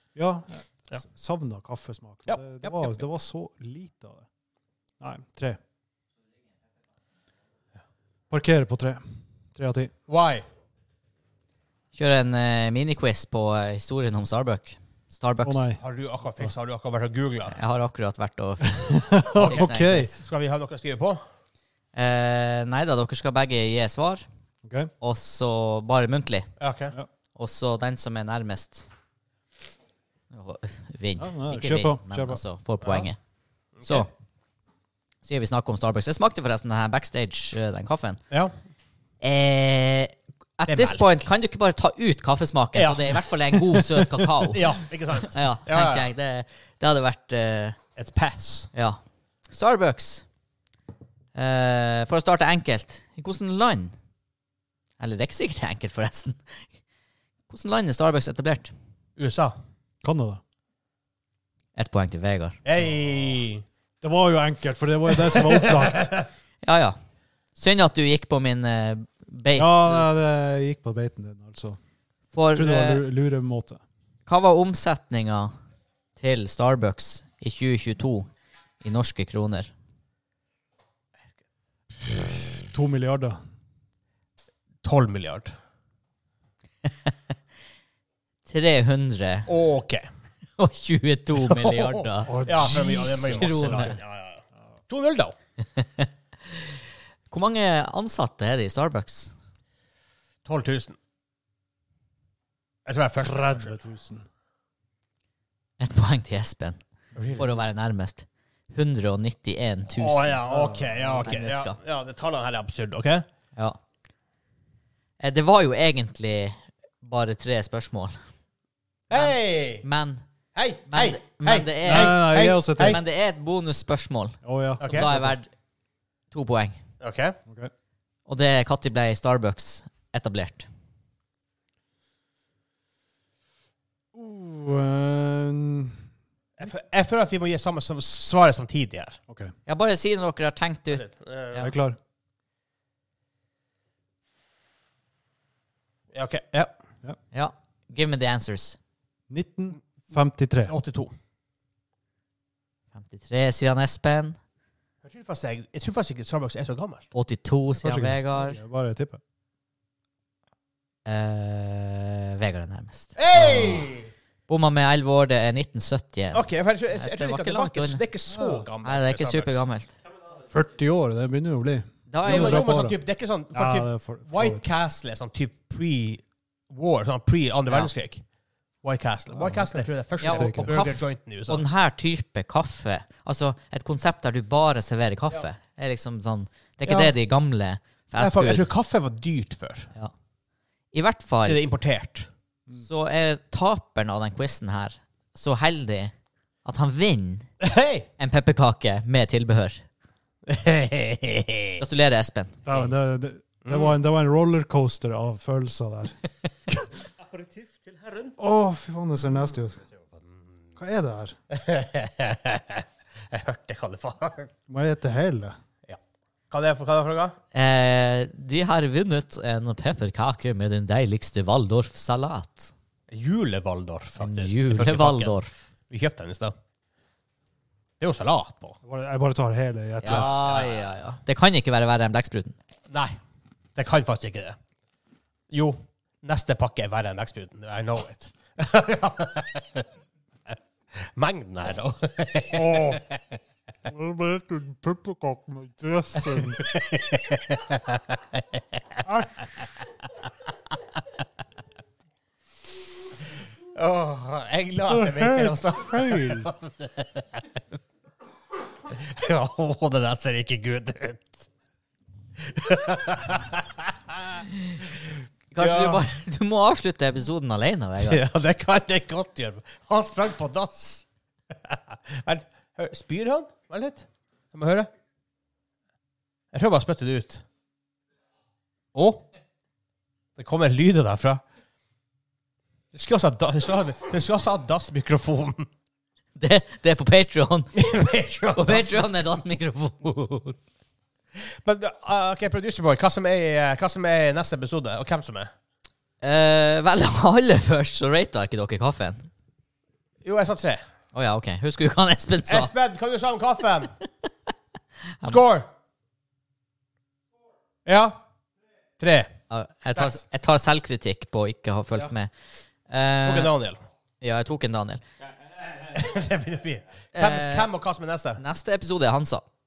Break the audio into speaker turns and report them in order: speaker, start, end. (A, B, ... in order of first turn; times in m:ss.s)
0:00.2-0:04.3 A
0:02.2-0:03.0 B
0:05.0-0:05.6 A
0:08.3-0:09.0 A
0:09.5-0:09.9 A
0:10.1-0:10.4 B
0:11.9-0:15.7 C
0:15.4-0:15.8 A
0:15.8-0:17.6 B
0:17.5-0:20.2 C
0:18.6-0:20.1 A
0:20.2-0:21.2 B
0:21.9-0:24.2 C
0:24.6-0:24.9 A
0:25.0-0:26.5 C
0:26.6-0:27.0 B
0:27.3-0:28.9 C
0:30.3-0:33.2 C
0:31.2-0:32.4 A
0:33.8-0:34.1 B
0:33.8-0:34.1 C
0:35.2-0:38.2 C
0:39.2-0:47.8 C
0:40.7-0:41.1 B
0:42.7-0:46.1 B
0:48.0-0:48.7 B
0:48.7-0:50.2 C
0:51.3-0:53.9 C
0:55.0-0:56.6 C
0:57.5-0:58.7 C
0:59.2-0:59.5 B
1:00.0-1:00.4 A
1:01.7-1:02.6 C
1:02.6-1:03.6 B
1:04.0-1:06.2 A
1:05.2-1:06.2 B
1:06.6-1:07.0 C
1:07.6-1:10.1 C
1:09.5-1:11.8 A
1:12.3-1:13.0 C
1:12.5-1:13.8 A
1:14.2-1:15.5 C
1:16.2-1:18.3 C
1:18.8-1:19.7 C
1:22.7-1:23.4 A
1:24.8-1:25.5 B
1:28.4-1:29.5 C
1:29.5-1:30.0 B
1:30.6-1:34.0 C
1:31.4-1:35.3 B
1:32.2-1:34.0 A
1:35.7-1:36.6 C
1:37.3-1:39.3 C
1:40.4-1:41.0 B
1:42.8-1:43.8 B
1:43.2-1:44.2 A
1:45.8-1:46.8 C
1:47.1-1:47.5 B
1:47.3-1:50.5 C
1:50.0-1:53.2 B
1:50.4-1:51.2 A
1:51.0-1:51.8 C
1:55.2-1:58.2 C
1:59.1-1:59.8 B
1:59.1-2:00.2 C
2:00.5-2:03.0 B
2:00.9-2:05.5 C
2:01.8-2:03.0 A
2:04.4-2:05.4 A
2:04.8-2:05.1 B
2:06.3-2:06.8 C
2:07.0-2:07.4 B
2:08.2-2:10.7 C
2:14.1-2:16.0 A
2:16.6-2:19.2 B
2:19.6-2:21.7 C
2:20.9-2:21.7 B
2:21.6-2:22.0 A
2:26.1-2:26.7 B
2:27.3-2:28.8 C
2:29.3-2:30.7 A
2:30.7-2:31.1 B
2:32.9-2:34.4 C
2:35.0-2:37.1 B
2:37.1-2:38.6 C
2:37.7-2:39.2 A
2:41.0-2:43.9 C
2:43.2-2:44.1 B
2:44.5-2:48.0 C
2:46.3-2:49.6 B
2:48.3-2:48.7 A
2:48.8-2:49.9 C
2:50.5-2:53.0 A
2:52.1-2:52.7 C
2:52.2-2:58.2 B
2:53.5-2:54.6 A
2:58.8-3:01.6 B
2:59.3-3:00.8 A
3:00.2-3:08.7 C
3:06.8-3:07.1 B
3:08.1-3:09.9 B
3:10.9-3:11.6 C
3:11.4-3:12.3 B
3:12.7-3:16.1 C
3:16.6-3:17.5 C
3:17.6-3:18.1 B
3:18.2-3:19.8 C
3:20.5-3:21.8 B
3:21.8-3:22.6 C
3:22.6-3:26.1 A
3:23.6-3:24.0 B
3:27.2-3:28.3 B
3:28.4-3:29.8 A
3:30.8-3:31.4 A
3:31.5-3:34.5 B
3:34.7-3:35.6 A
3:36.5-3:37.4 B
3:37.5-3:42.7 C
3:43.1-3:45.4 B
3:44.2-3:45.6 C
3:45.9-3:46.5 B
3:48.0-3:48.8 B
3:48.8-3:50.4 A
3:50.0-3:52.6 C
3:50.0-3:50.9 B
3:52.9-3:53.2 B
3:53.8-3:54.6 B
3:55.5-3:59.8 B
4:00.9-4:03.2 B
4:02.5-4:03.0 A
4:03.8-4:06.6 A
4:06.2-4:08.8 B
4:09.0-4:09.4 A
4:13.7-4:17.4 B
4:14.9-4:16.5 A
4:18.8-4:21.5 B
4:22.4-4:24.4 B
4:25.5-4:28.2 C
4:25.6-4:26.1 B
4:28.0-4:31.0 B
4:31.6-4:34.9 B
4:36.5-4:37.4 B
4:38.9-4:39.2 B
4:40.4-4:41.4 B
4:42.9-4:45.7 B
4:46.4-4:47.8 C
4:47.8-4:49.1 B
4:48.5-4:50.6 C
4:51.6-4:55.5 B
4:56.2-4:59.3 C
5:00.2-5:00.8 B
5:01.1-5:02.7 C
5:02.5-5:03.9 B
5:05.2-5:05.7 B
5:07.8-5:08.2 B
5:09.0-5:09.3 B
5:09.5-5:12.3 C
5:12.9-5:13.5 C
5:13.2-5:13.8 B
5:14.2-5:15.0 C
5:15.8-5:18.4 B
5:17.1-5:17.7 C
5:18.4-5:19.4 C